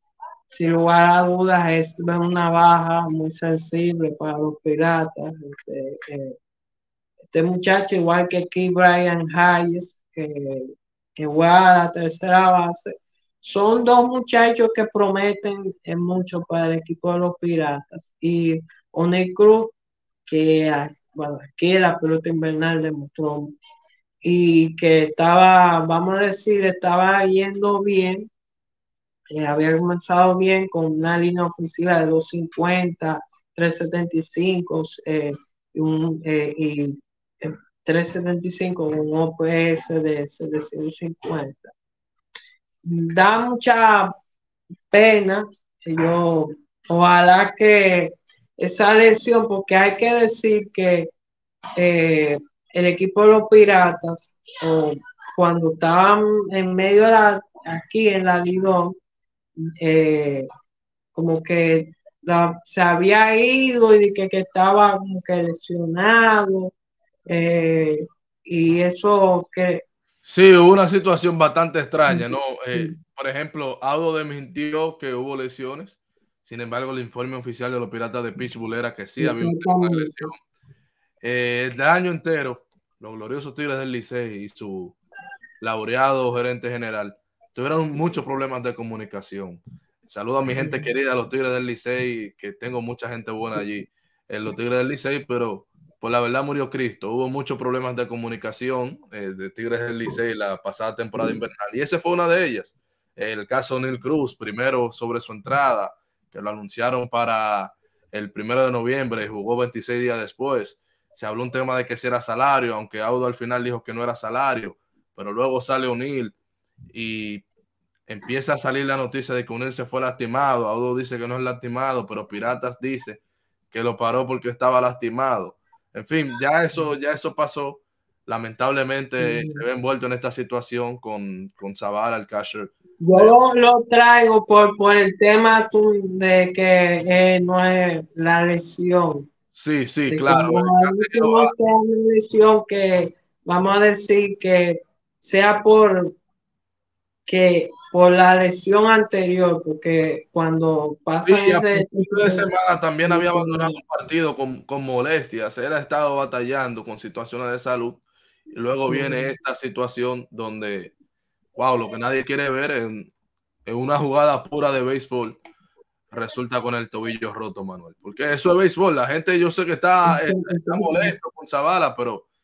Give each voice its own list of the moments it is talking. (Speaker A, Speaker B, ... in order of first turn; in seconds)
Speaker A: 0.5-6.4, 7.3-19.7, 20.3-23.6, 24.2-28.3, 29.3-41.7, 42.9-44.1, 44.9-51.1, 51.8-59.0, 59.8-60.5, 61.1-66.7, 67.3-69.8, 72.1-73.0, 79.2-80.3, 90.5-90.9, 129.2-129.6, 133.0-139.3, 140.1-146.2, 147.3-152.5, 153.0-153.8, 158.9-159.3, 170.1-171.1
Speaker B: 70.2-80.4, 81.2-85.0, 85.6-116.4, 116.9-117.5, 118.1-123.2, 123.7-133.3, 139.5-141.5, 151.2-160.9, 161.6-163.1, 163.7-165.4, 166.1-172.3